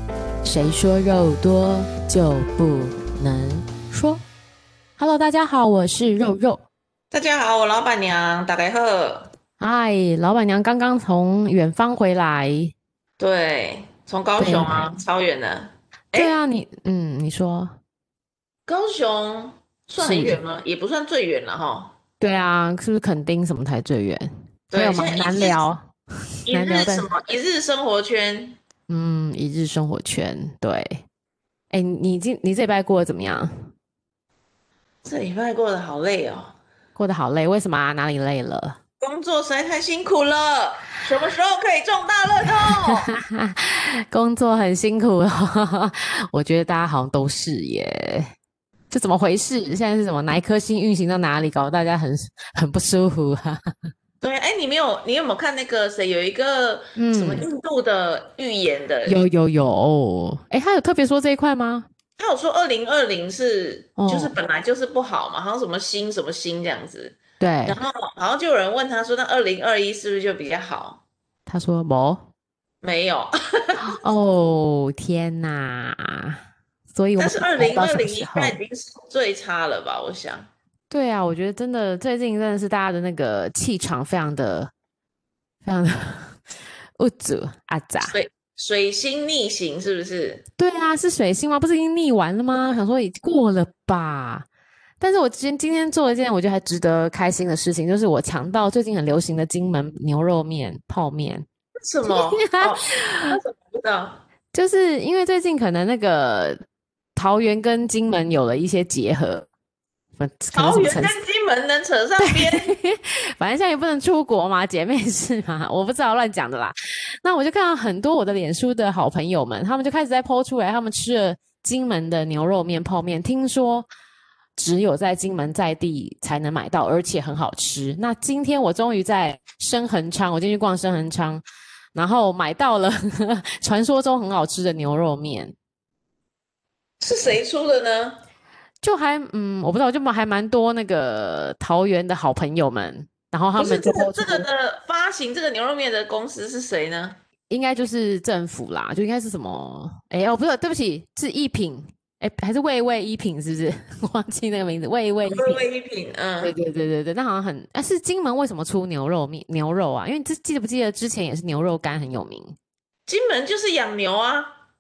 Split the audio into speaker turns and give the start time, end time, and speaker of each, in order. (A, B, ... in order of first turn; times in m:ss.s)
0:00.4-0:04.2 A
0:05.0-0:06.6 A
0:07.1-0:09.3 B
0:09.6-0:12.7 A
0:13.2-0:16.4 B
0:14.4-0:15.0 A
0:16.1-0:17.8 A
0:18.7-0:21.9 B
0:20.0-0:20.4 A
0:22.2-0:25.9 A
0:24.7-0:25.6 B
0:26.5-0:27.1 A
0:26.5-0:28.6 B
0:28.9-0:31.0 A
0:31.7-0:33.7 A
0:35.0-0:36.5 B
0:37.0-0:38.8 A
0:39.0-0:43.1 B
0:42.6-0:48.3 A
0:48.9-0:53.6 A
0:54.2-0:59.2 B
0:57.0-0:57.5 A
0:59.1-1:01.9 A
1:02.2-1:11.0 B
1:04.0-1:04.4 A
1:07.4-1:07.8 A
1:11.5-1:12.3 A
1:12.8-1:14.0 B
1:13.8-1:16.4 A
1:16.9-1:18.6 A
1:17.2-1:20.5 B
1:20.9-1:24.7 A
1:25.6-1:26.4 A
1:27.0-1:28.2 A
1:28.1-1:30.4 B
1:30.6-1:34.5 A
1:35.0-1:41.5 A
1:41.8-1:44.2 B
1:42.0-1:43.4 A
1:44.5-1:46.6 A
1:47.2-1:49.5 A
1:50.2-1:51.2 A
1:50.5-1:52.7 B
1:52.2-2:03.9 A
2:04.6-2:11.4 A
2:11.9-2:15.6 A
2:17.0-2:18.2 B
2:18.8-2:24.5 A
2:23.6-2:27.2 B
2:27.5-2:35.6 A
2:35.3-2:36.6 B
2:36.4-2:42.6 A
2:43.1-2:44.5 B